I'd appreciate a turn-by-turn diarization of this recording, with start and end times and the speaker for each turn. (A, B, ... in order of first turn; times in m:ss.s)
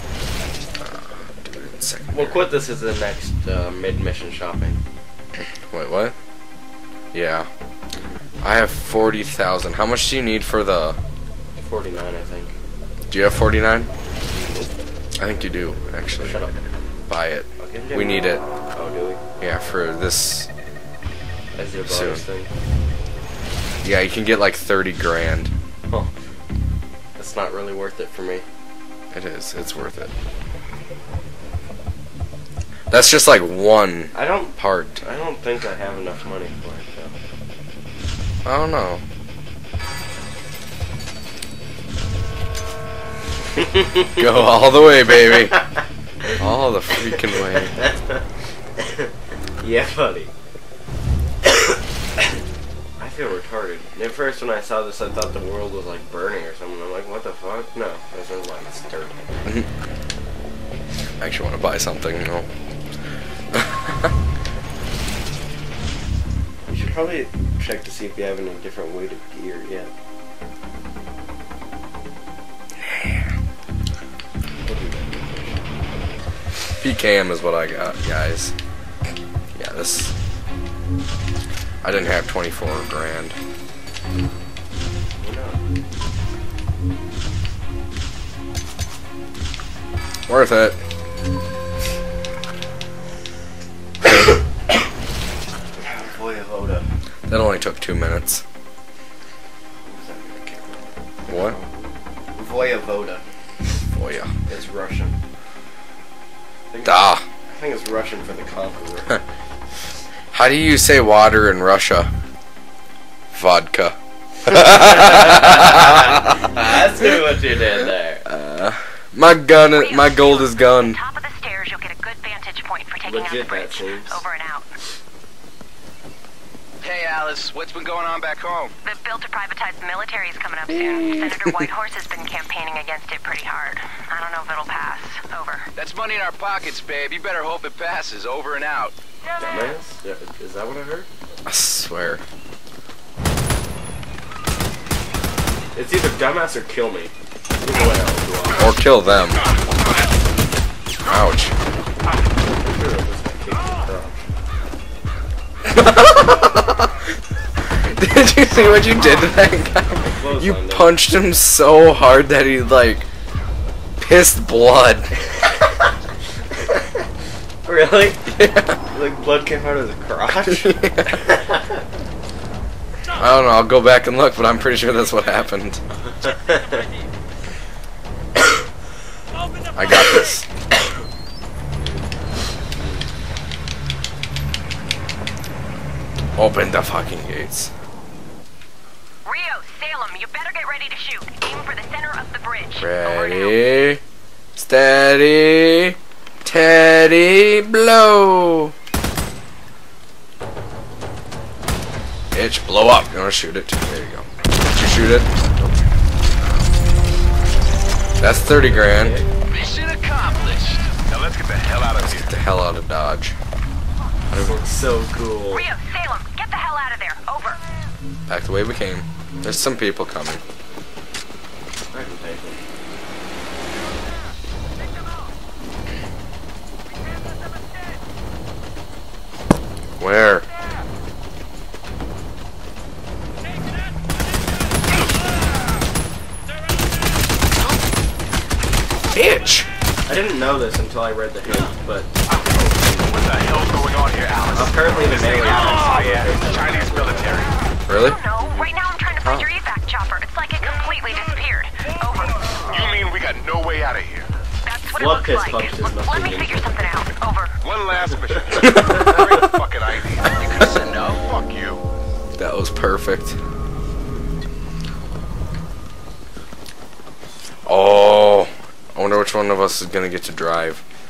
0:00.8-0:02.5 A
0:02.1-0:04.8 B
0:05.7-0:06.2 A
0:07.1-0:07.5 A
0:08.4-0:11.0 A
0:11.6-0:12.6 B
0:13.1-0:13.9 A
0:14.3-0:14.7 B
0:15.2-0:16.4 A
0:16.2-0:16.5 B
0:17.1-0:18.4 A
0:17.6-0:19.2 B
0:19.4-0:20.5 A
0:21.6-0:22.5 B
0:21.9-0:22.2 A
0:23.8-0:25.5 A
0:27.2-0:28.4 B
0:29.1-0:30.1 A
0:32.9-0:35.0 A
0:34.1-0:37.2 B
0:38.4-0:39.0 A
0:43.6-0:45.7 B
0:44.2-0:45.6 A
0:46.4-0:47.8 A
0:47.0-0:48.2 B
0:48.8-0:50.3 B
0:51.5-0:51.8 B
0:53.0-0:59.4 B
1:01.2-1:02.5 A
1:03.5-1:04.1 A
1:06.7-1:09.9 B
1:12.8-1:13.3 A
1:14.6-1:15.6 B
1:16.8-1:18.5 A
1:19.5-1:20.1 A
1:21.8-1:23.4 A
1:25.2-1:25.6 B
1:30.3-1:30.8 A
1:35.8-1:36.9 B
1:37.3-1:38.4 A
1:39.8-1:43.2 B
1:41.3-1:41.6 A
1:43.9-1:44.3 A
1:44.5-1:45.2 B
1:46.7-1:49.2 B
1:46.8-1:47.2 A
1:50.3-1:52.1 A
1:53.3-1:56.7 A
1:54.6-1:58.3 B
1:58.3-2:01.0 A
1:59.7-2:04.7 C
2:03.0-2:04.2 B
2:06.8-2:08.7 D
2:08.8-2:15.7 C
2:10.7-2:11.6 A
2:15.8-2:18.9 D
2:19.4-2:21.1 B
2:21.5-2:22.2 A
2:25.8-2:28.8 B
2:28.6-2:29.4 A
2:31.0-2:31.6 A
2:32.6-2:34.3 B
2:35.7-2:37.1 A
2:37.7-2:43.1 A
2:40.0-2:41.0 B
2:44.0-2:45.1 A
2:45.4-2:45.9 B
2:47.6-2:48.3 B
2:48.3-2:48.8 A
2:48.8-2:51.6 B
2:50.5-2:51.3 A
2:53.2-2:55.8 A
2:56.1-2:56.8 B
2:59.8-3:00.5 A
3:06.4-3:07.7 A
3:09.2-3:13.6 C
3:12.8-3:14.0 A
3:14.6-3:18.7 A
3:22.3-3:25.3 A
3:28.2-3:29.2 A
3:28.6-3:29.3 B
3:29.5-3:30.9 D
3:31.1-3:32.4 E
3:32.0-3:33.4 A
3:34.3-3:34.6 A
3:34.3-3:35.6 B
3:35.5-3:37.6 C
3:38.3-3:40.4 A
3:41.9-3:42.6 B
3:50.0-3:50.4 A
3:59.1-3:59.7 A
4:00.1-4:02.1 B
4:02.3-4:07.6 E
4:04.5-4:07.5 B
4:07.9-4:08.2 A
4:08.0-4:12.4 C
4:08.4-4:08.7 B
4:09.2-4:09.5 A
4:12.7-4:14.3 E
4:14.6-4:17.6 C
4:14.9-4:17.0 B
4:17.6-4:21.8 E
4:18.9-4:19.4 A
4:20.3-4:21.2 D
4:22.4-4:23.4 A
4:27.7-4:30.8 A